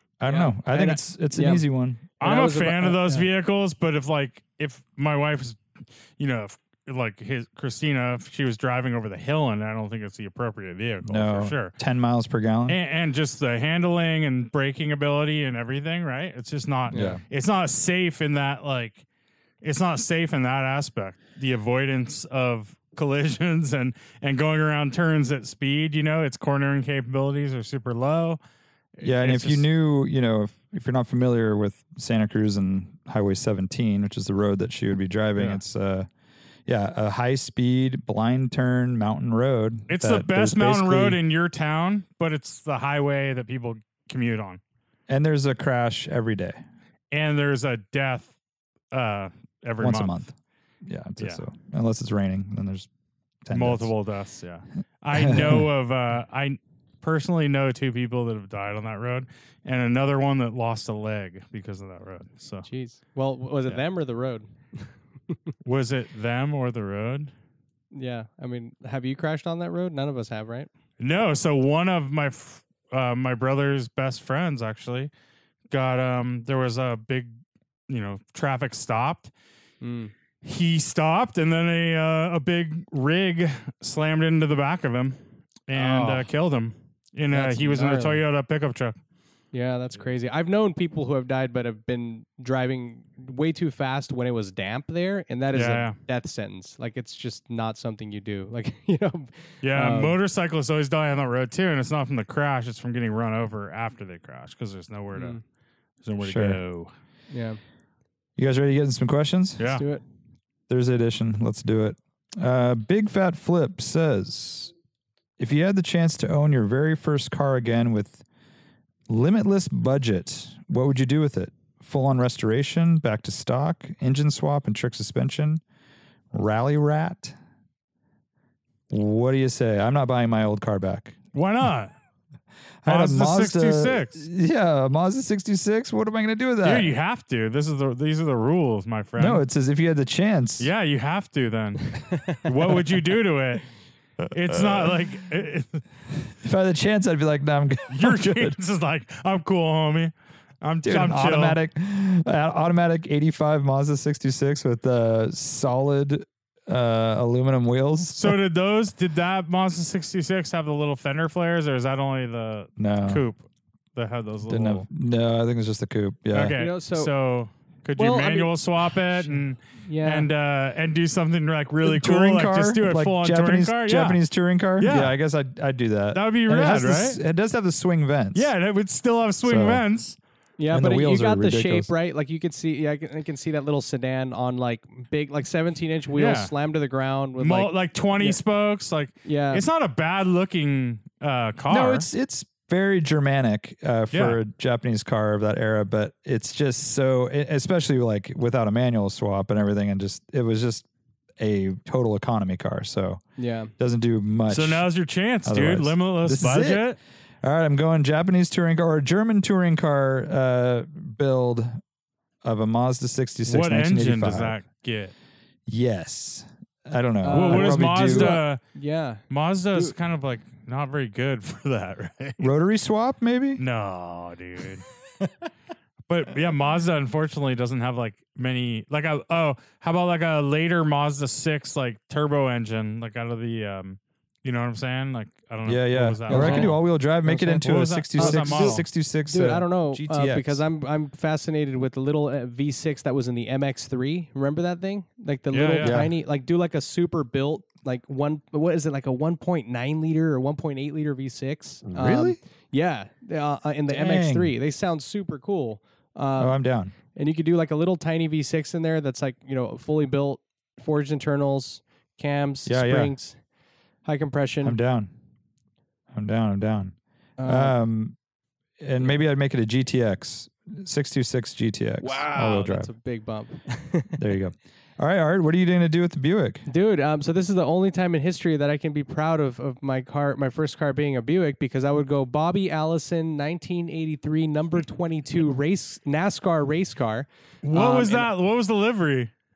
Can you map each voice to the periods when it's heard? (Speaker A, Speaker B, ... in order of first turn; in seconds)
Speaker A: 0.2-2.0, 11.0-12.8, 16.9-17.2, 29.0-36.1, 36.7-41.2, 45.1-46.6, 49.8-50.3, 50.9-52.9, 53.5-53.9, 55.1-55.7, 106.2-106.6, 108.4-109.6, 110.7-114.7, 115.4-118.2, 119.1-125.6, 126.3-127.4, 128.9-131.2, 132.8-136.9, 139.2-140.7, 146.4-148.6, 150.8-158.4, 162.8-163.2, 164.5-166.6, 171.8-178.5, 179.4-179.8, 180.7-181.9, 191.7-200.9, 201.4-203.2, 203.8-204.9, 205.4-206.9, 207.4-211.8, 212.4-214.6, 215.7-218.4, 222.4-223.6, 235.7-240.6, 245.8-246.1, 251.9-252.4, 253.9-254.5, 256.4-256.9, 262.7-263.1, 264.6-265.1, 266.1-268.2, 268.8-272.9, 274.2-276.7
Speaker B: 0.3-1.6, 2.2-3.3, 16.9-17.2, 62.6-65.4, 67.9-70.7, 79.8-80.1, 85.7-86.3, 87.3-88.2, 89.5-100.2, 105.1-105.4, 107.3-107.6, 109.7-110.0, 142.1-142.4, 166.6-167.1, 168.0-168.5, 169.8-170.3, 180.6-188.4, 189.2-189.7, 203.4-203.7, 217.2-219.9, 236.3-256.6, 257.1-263.4, 264.0-264.8, 267.4-267.8, 272.0-274.2, 276.7-288.3
Speaker C: 2.2-5.6, 6.2-11.7, 12.7-19.0, 19.6-28.4, 29.0-29.7, 35.4-35.6, 39.9-44.6, 47.1-48.3, 48.9-50.2, 53.5-62.7, 65.7-67.3, 71.0-75.1, 75.7-77.4, 77.9-79.3, 80.4-89.0, 95.5-96.0, 99.6-105.4, 106.0-106.9, 109.6-109.8, 131.3-131.9, 132.9-134.2, 136.6-139.4, 140.6-143.7, 144.3-145.8, 147.9-151.6, 158.1-163.4, 164.0-164.9, 166.3-174.2, 174.8-175.1, 176.1-177.2, 178.3-180.2, 186.2-186.5, 187.4-192.1, 194.1-194.4, 204.5-207.0, 213.5-215.1, 217.3-218.6, 219.3-222.5, 223.6-224.9, 226.1-236.8, 237.6-238.8, 245.5-246.0, 287.6-289.3